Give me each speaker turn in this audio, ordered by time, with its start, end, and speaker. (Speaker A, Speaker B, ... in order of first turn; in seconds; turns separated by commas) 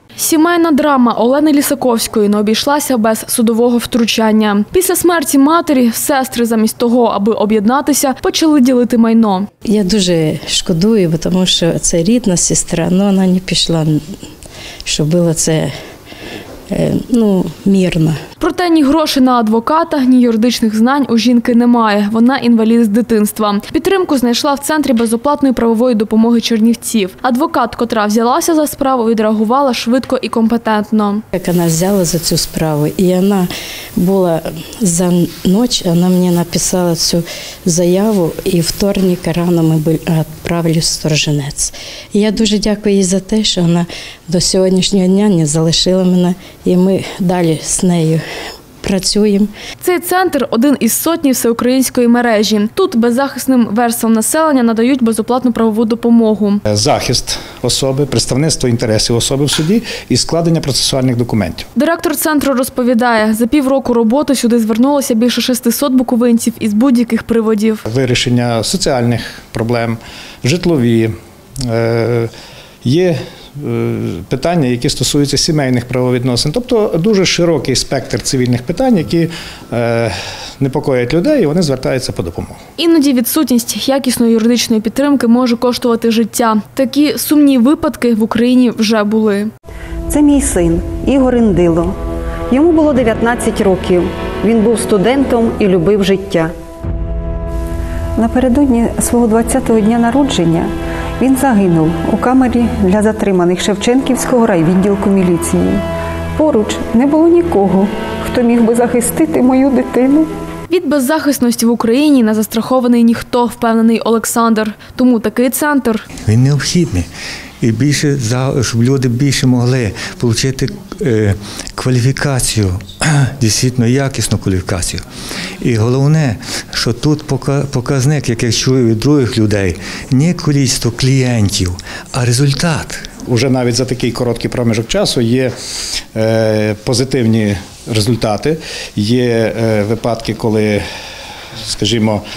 Speaker A: 0.2-9.5, Speaker B: 9.6-14.0, Speaker B: 14.8-15.7, Speaker B: 16.7-18.2, Speaker A: 18.4-31.2, Speaker B: 31.3-48.2, Speaker B: 48.8-49.5, Speaker A: 49.8-56.6, Speaker C: 56.7-61.7, Speaker A: 61.8-67.8, Speaker C: 67.9-71.1, Speaker C: 71.6-72.3, Speaker C: 72.8-82.6, Speaker A: 82.8-89.5, Speaker D: 90.1-91.9, Speaker D: 92.5-96.5, Speaker D: 98.2-105.8, Speaker D: 106.3-110.3, Speaker A: 110.7-116.1, Speaker E: 116.2-117.1, Speaker E: 117.6-125.0, Speaker E: 125.6-133.1, Speaker C: 133.2-135.5, Speaker C: 136.1-140.8, Speaker C: 141.7-142.2